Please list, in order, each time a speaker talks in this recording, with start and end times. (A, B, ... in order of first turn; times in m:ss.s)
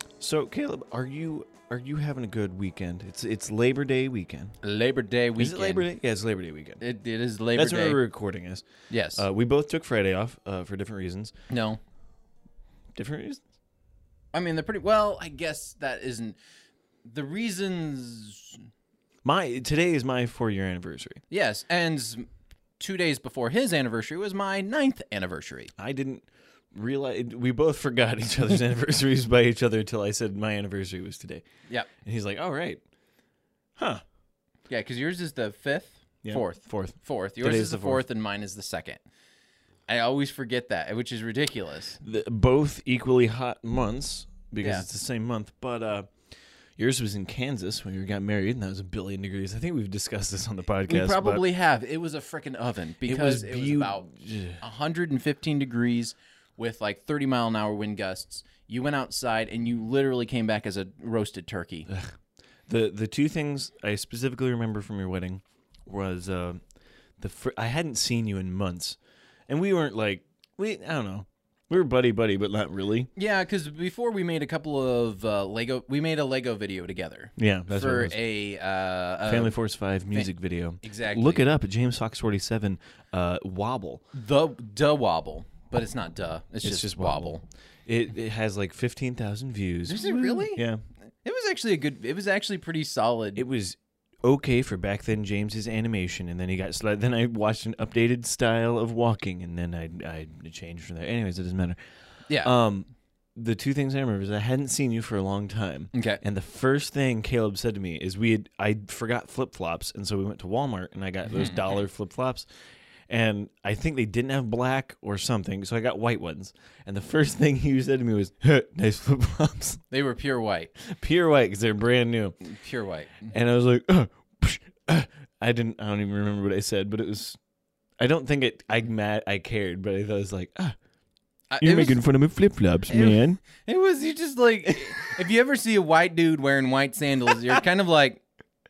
0:00.2-0:04.6 A
0:04.6-0:05.9 B
0:05.4-0:06.8 A
0:06.8-0:08.0 B
0:07.6-0:11.3 A
0:08.9-0:09.2 B
0:11.5-0:11.8 B
0:13.0-0:13.4 A
0:14.3-0:16.4 B
0:17.1-0:18.7 B
0:19.2-0:21.2 A
0:21.3-0:22.3 B
0:22.8-0:25.7 B
0:25.8-0:31.4 A
0:32.0-0:32.8 A
0:33.8-0:34.0 A
0:34.7-0:39.0 B
0:36.2-0:38.0 A
0:39.9-0:42.0 B
0:42.0-0:46.1 A
0:46.8-0:51.4 A
0:50.9-0:54.1 B
0:53.0-0:54.6 A
0:54.6-1:01.9 B
1:02.7-1:06.6 A
1:07.2-1:09.0 A
1:09.5-1:13.1 A
1:13.2-1:19.6 B
1:17.4-1:18.2 A
1:19.3-1:24.0 A
1:20.8-1:21.4 B
1:24.1-1:27.4 B
1:26.6-1:30.8 A
1:29.9-1:30.6 B
1:31.2-1:33.4 B
1:33.4-1:41.8 A
1:42.4-1:52.5 A
1:45.9-1:46.2 B
1:51.3-1:51.6 B
1:53.1-1:59.8 A
1:59.9-2:00.7 B
2:00.8-2:02.4 A
2:02.4-2:03.3 B
2:03.3-2:07.4 A
2:08.0-2:10.8 A
2:11.5-2:12.0 B
2:11.6-2:13.4 A
2:12.9-2:18.2 B
2:14.7-2:15.0 A